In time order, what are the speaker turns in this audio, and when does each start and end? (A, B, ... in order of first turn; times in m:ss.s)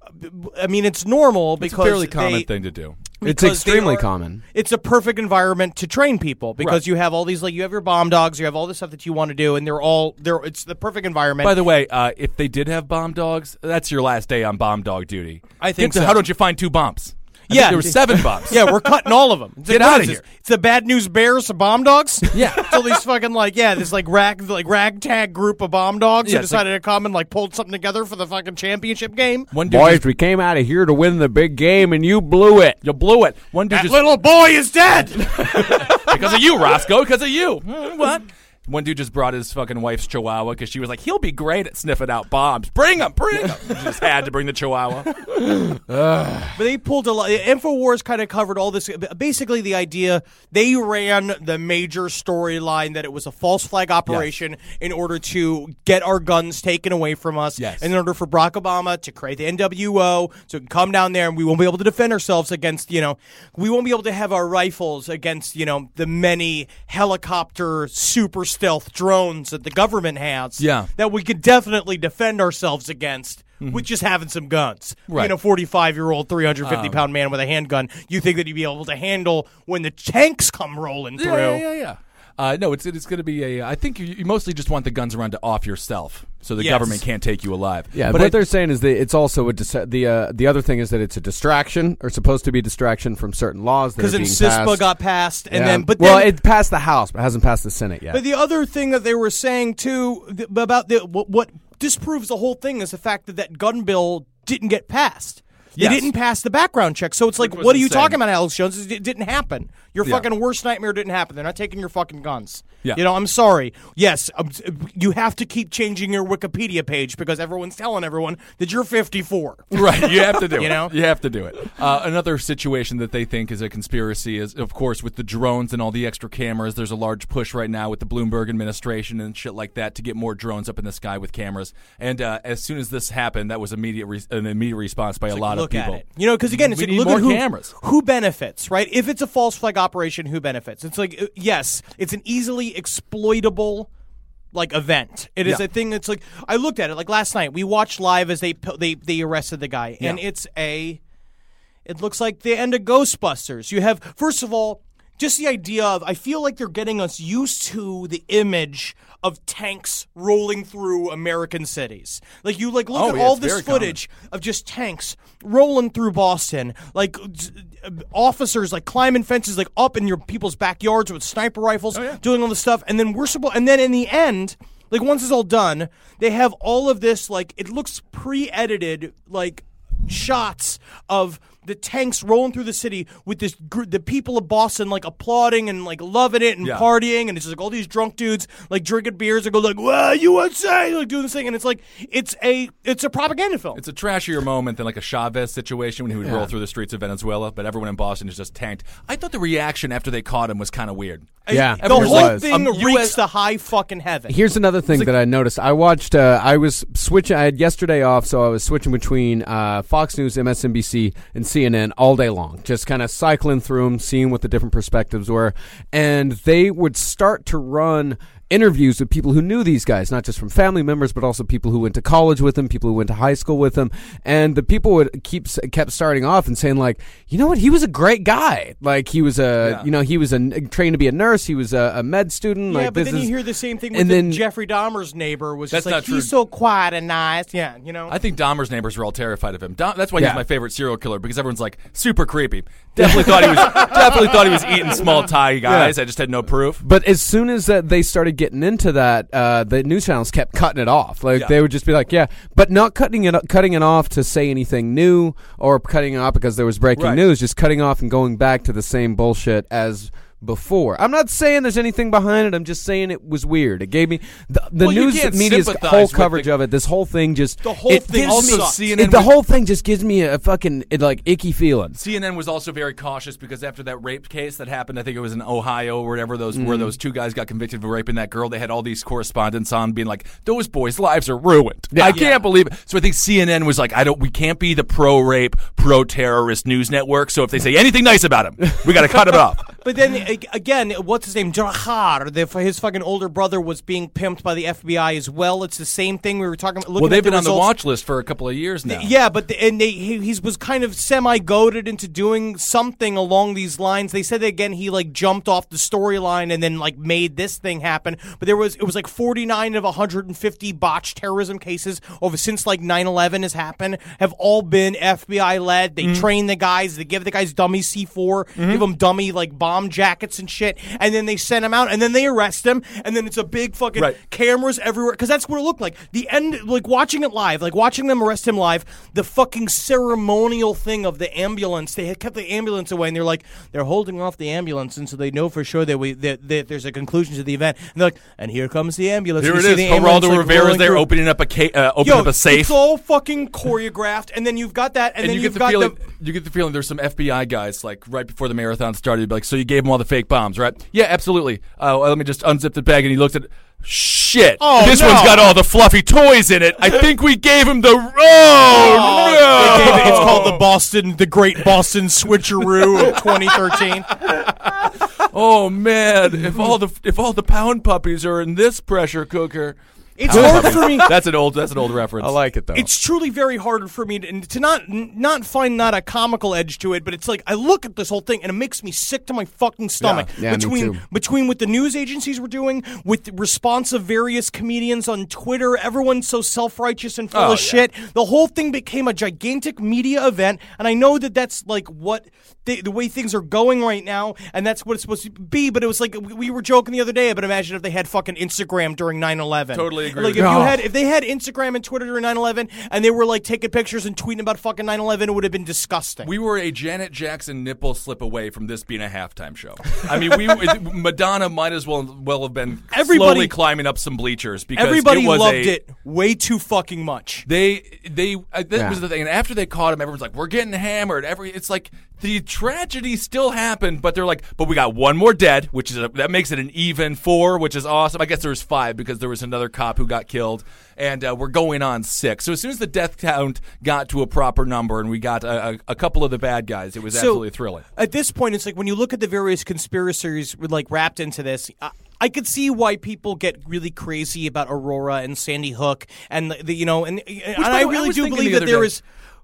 0:00.2-0:02.5 A
0:01.6-0:03.0 B
0:03.2-0:11.6 A
0:03.2-0:04.4 C
0:11.4-0:19.1 B
0:15.6-0:16.2 A
0:17.5-0:29.5 A
0:19.7-0:20.2 B
0:22.3-0:23.0 B
0:26.2-0:26.6 B
0:29.5-0:30.0 B
0:29.7-0:32.8 C
0:32.8-0:34.2 B
0:33.7-0:36.1 A
0:35.3-0:45.1 B
0:45.5-0:46.6 C
0:46.6-1:21.6 A
0:57.6-0:57.9 B
1:10.6-1:10.9 B
1:15.1-1:15.3 B
1:16.6-1:17.0 B
1:21.2-1:28.4 B
1:26.6-1:27.0 A
1:27.9-1:34.9 C
1:34.0-1:36.4 A
1:35.5-1:38.2 C
1:38.1-2:00.9 A
1:45.8-1:46.1 B
1:47.4-1:48.2 B
1:59.7-2:17.7 B
2:15.3-2:23.9 A
2:24.5-2:31.0 A
2:31.9-3:13.8 A
2:42.9-2:44.0 B
2:52.0-2:52.2 B
3:13.8-3:23.2 B
3:16.2-3:16.5 C
3:21.5-3:24.4 A
3:21.5-3:22.5 C
3:24.3-3:53.3 C
3:49.6-3:49.9 B
3:52.7-3:58.2 A
3:53.9-3:54.4 C
3:55.7-3:56.3 B
3:58.1-4:06.8 B
4:00.2-4:00.4 C
4:03.0-4:03.9 C
4:05.6-4:06.0 C
4:06.8-4:32.0 C
4:17.0-4:17.2 B
4:24.8-4:26.5 B
4:27.6-4:28.8 A
4:28.1-4:29.4 B
4:32.0-4:49.7 B
4:36.5-4:36.9 C
4:41.9-4:42.2 C
4:42.1-4:42.4 A
4:49.8-4:57.7 A
4:57.0-4:59.1 B
4:58.9-5:41.1 A
5:16.0-5:16.3 B
5:18.6-5:18.8 B
5:39.4-5:42.8 B
5:42.0-5:46.0 A
5:45.2-6:00.7 B
5:54.6-5:55.6 A
5:58.7-6:04.1 A
5:59.8-6:00.1 C
6:02.8-6:03.2 B
6:04.2-6:12.4 B
6:10.2-6:11.1 A
6:10.3-6:11.1 C
6:12.2-6:12.9 C
6:12.7-6:46.3 A
6:20.3-6:21.0 C
6:27.3-6:27.8 B
6:39.7-6:40.8 B
6:40.4-6:40.8 C
6:46.2-6:55.8 B
6:52.9-6:53.6 A
6:54.8-6:57.4 A
6:57.5-7:17.8 B
6:58.8-6:59.0 C
7:17.1-7:29.0 A
7:27.6-7:28.9 B